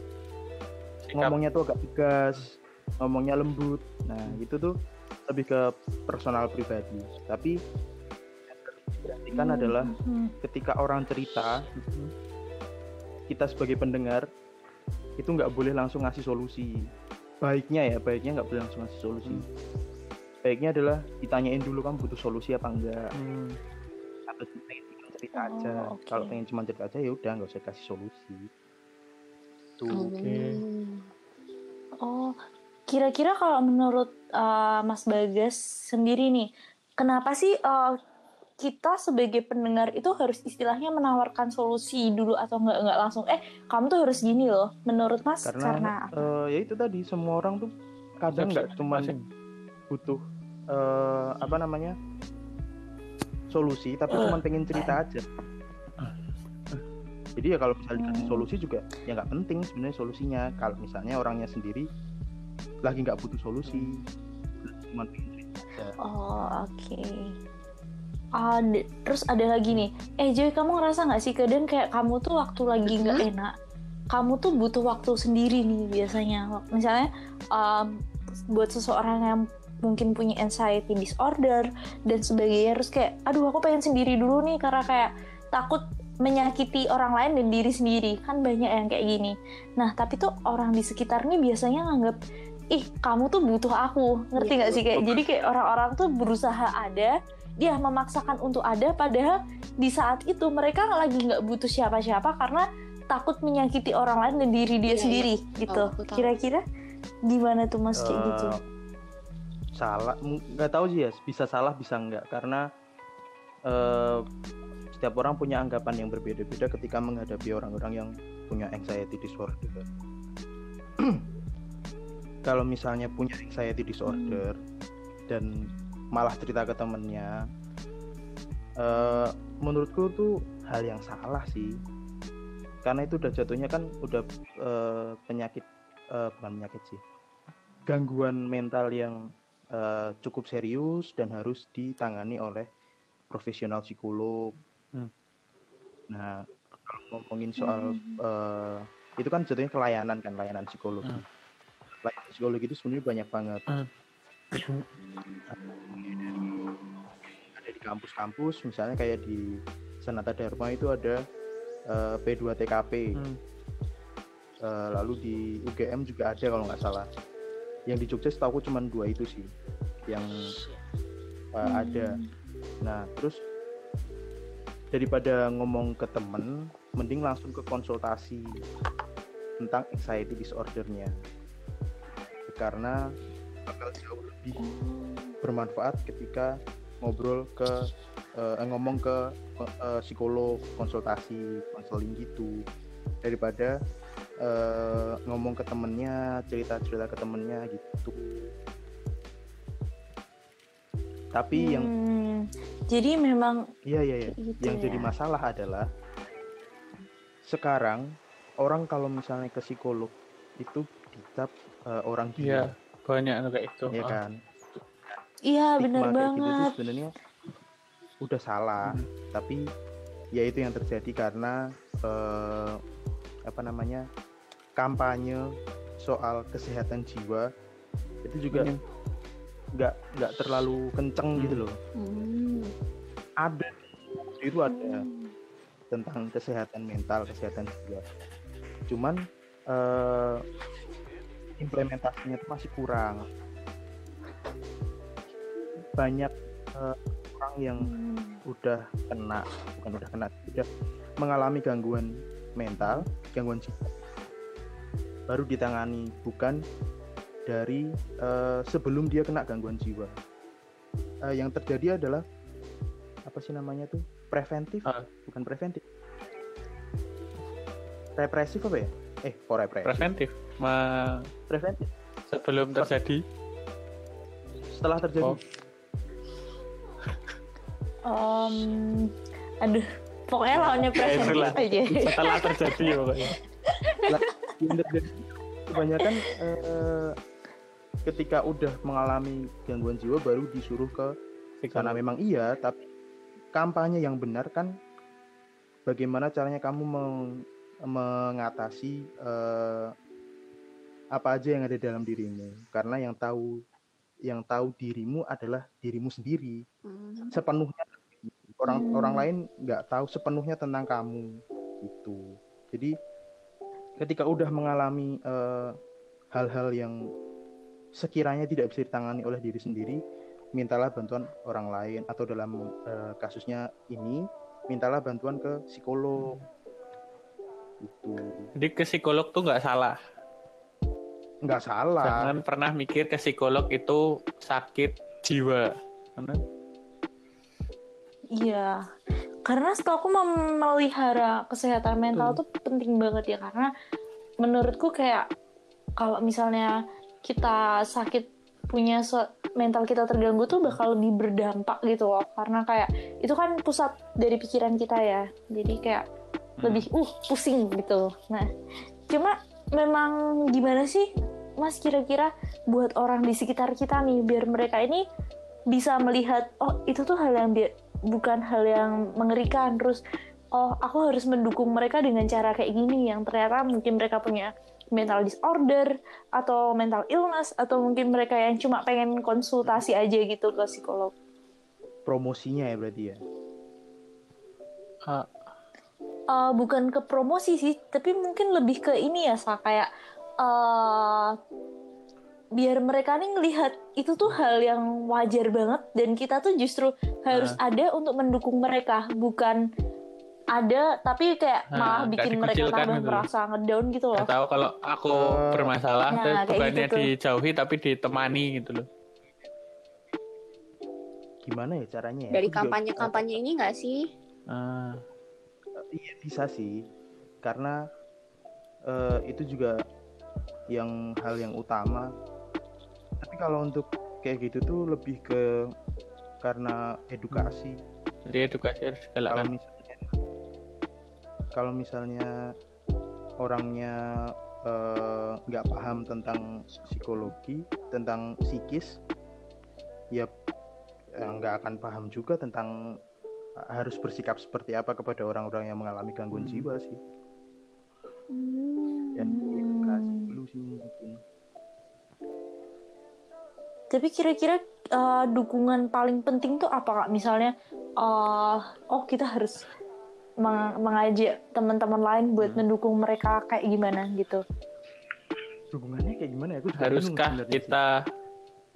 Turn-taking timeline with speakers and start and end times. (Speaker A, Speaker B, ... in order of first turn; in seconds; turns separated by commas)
Speaker A: 1.1-1.4, Speaker B: 1.2-4.8, Speaker B: 5.3-7.6, Speaker B: 8.5-9.9, Speaker C: 9.3-10.3, Speaker B: 10.4-11.5, Speaker A: 11.8-12.1, Speaker B: 13.3-14.2, Speaker B: 15.2-16.8, Speaker B: 17.4-19.4, Speaker B: 20.4-23.1, Speaker A: 23.2-23.6, Speaker B: 24.3-28.5, Speaker C: 25.4-26.4, Speaker B: 29.8-30.2, Speaker D: 29.9-31.0, Speaker A: 30.2-30.6, Speaker C: 32.0-32.4, Speaker C: 32.9-36.5, Speaker C: 37.0-37.9, Speaker C: 38.6-46.1, Speaker B: 45.5-49.1, Speaker A: 48.3-49.2, Speaker B: 49.9-50.2, Speaker B: 50.7-52.0, Speaker B: 53.5-55.2, Speaker B: 57.4-61.9, Speaker C: 58.0-58.4, Speaker B: 62.9-64.0, Speaker B: 64.6-66.0, Speaker C: 66.0-67.3, Speaker C: 68.4-73.5, Speaker D: 72.8-73.3, Speaker C: 74.1-77.9, Speaker C: 78.5-92.2, Speaker C: 92.7-106.6, Speaker B: 94.4-95.2, Speaker D: 104.9-106.3, Speaker C: 107.3-108.5, Speaker B: 108.0-108.6, Speaker B: 109.8-112.6, Speaker B: 113.7-114.2, Speaker B: 115.0-119.9, Speaker B: 122.5-124.5, Speaker C: 124.1-124.4, Speaker B: 126.1-127.4, Speaker B: 128.8-131.7, Speaker B: 132.8-137.0, Speaker B: 137.9-139.2, Speaker B: 139.8-142.7, Speaker B: 143.3-144.5, Speaker B: 146.1-151.2, Speaker C: 147.6-148.2, Speaker B: 152.0-153.6, Speaker A: 154.5-154.9, Speaker B: 155.5-156.3, Speaker B: 157.6-159.5, Speaker B: 160.0-161.2, Speaker B: 161.9-163.2, Speaker B: 164.6-167.1, Speaker B: 167.9-169.5, Speaker B: 170.1-170.4, Speaker B: 171.6-172.1, Speaker C: 171.7-172.2, Speaker B: 172.8-173.4, Speaker B: 174.9-178.5, Speaker B: 179.6-181.1, Speaker B: 182.5-183.0, Speaker B: 183.7-184.6, Speaker C: 184.6-185.3, Speaker B: 185.4-192.6, Speaker B: 193.2-193.7, Speaker B: 194.4-198.5, Speaker B: 201.3-201.9, Speaker C: 201.6-203.6, Speaker B: 203.9-205.9, Speaker C: 204.3-205.1, Speaker B: 207.5-208.0, Speaker B: 208.6-212.7, Speaker A: 212.4-214.2, Speaker B: 213.9-214.4, Speaker C: 215.5-216.7, Speaker B: 215.8-217.1, Speaker B: 218.2-219.6, Speaker B: 220.4-222.8, Speaker B: 223.5-224.1, Speaker B: 224.8-227.5, Speaker B: 228.2-228.7, Speaker A: 228.5-228.8, Speaker B: 229.8-231.8, Speaker A: 231.4-231.6, Speaker D: 232.0-232.7, Speaker B: 233.4-235.1, Speaker C: 234.7-235.3, Speaker B: 235.9-238.0, Speaker B: 238.9-239.2, Speaker B: 239.7-240.4, Speaker B: 241.6-243.2, Speaker B: 246.0-247.9, Speaker C: 247.8-248.4, Speaker B: 248.5-250.7, Speaker B: 251.2-253.9, Speaker B: 255.3-256.6, Speaker B: 257.5-260.1, Speaker B: 261.3-262.2, Speaker B: 263.3-265.8, Speaker B: 268.2-270.1, Speaker A: 269.9-271.3, Speaker B: 271.5-271.9, Speaker A: 272.3-273.2, Speaker B: 274.7-275.4, Speaker C: 278.1-279.1, Speaker C: 279.6-283.0, Speaker B: 280.5-282.1, Speaker A: 281.0-283.3, Speaker B: 284.1-285.1, Speaker B: 285.7-287.1, Speaker B: 288.1-291.1, Speaker A: 291.6-292.0, Speaker B: 291.7-292.8, Speaker B: 293.6-294.7, Speaker B: 295.9-297.2, Speaker B: 297.9-299.9, Speaker B: 301.1-303.5, Speaker B: 304.3-306.6, Speaker D: 306.9-307.4, Speaker B: 307.3-311.2, Speaker C: 308.7-309.2, Speaker B: 311.8-312.9, Speaker B: 314.0-315.7, Speaker B: 316.3-317.0, Speaker B: 318.0-320.0, Speaker B: 320.6-326.4, Speaker A: 326.2-326.4, Speaker B: 327.8-328.5, Speaker A: 328.6-330.0, Speaker B: 331.4-332.3, Speaker A: 332.0-336.4, Speaker C: 338.4-338.8, Speaker C: 339.5-343.7, Speaker A: 342.1-342.4, Speaker C: 344.4-345.2, Speaker C: 346.0-346.7, Speaker C: 347.2-356.1, Speaker A: 350.5-350.8, Speaker A: 356.6-356.9, Speaker C: 356.6-358.5, Speaker C: 359.1-361.1, Speaker C: 361.6-365.0, Speaker C: 365.7-370.0, Speaker C: 370.6-381.1, Speaker B: 382.1-383.2, Speaker A: 385.1-385.3, Speaker C: 386.3-389.9, Speaker C: 390.4-391.3, Speaker C: 392.6-399.6, Speaker A: 397.3-397.6, Speaker C: 400.6-404.3, Speaker A: 401.7-403.3, Speaker A: 404.2-408.9, Speaker B: 405.1-405.7, Speaker C: 406.1-407.1, Speaker B: 411.4-413.2, Speaker D: 412.3-414.0, Speaker A: 414.5-415.0, Speaker B: 415.8-416.7, Speaker B: 417.4-417.8, Speaker B: 418.9-419.8, Speaker B: 420.7-422.1, Speaker B: 423.2-425.4, Speaker B: 426.4-427.8, Speaker A: 428.2-429.5, Speaker B: 429.3-430.1, Speaker B: 431.6-432.3, Speaker B: 433.4-433.9, Speaker B: 434.7-438.9, Speaker B: 441.2-442.7, Speaker B: 443.7-447.0, Speaker A: 446.3-446.7, Speaker C: 448.3-450.3, Speaker B: 449.1-451.2, Speaker C: 453.9-459.6, Speaker C: 460.4-464.4, Speaker B: 465.7-467.8, Speaker A: 466.8-467.9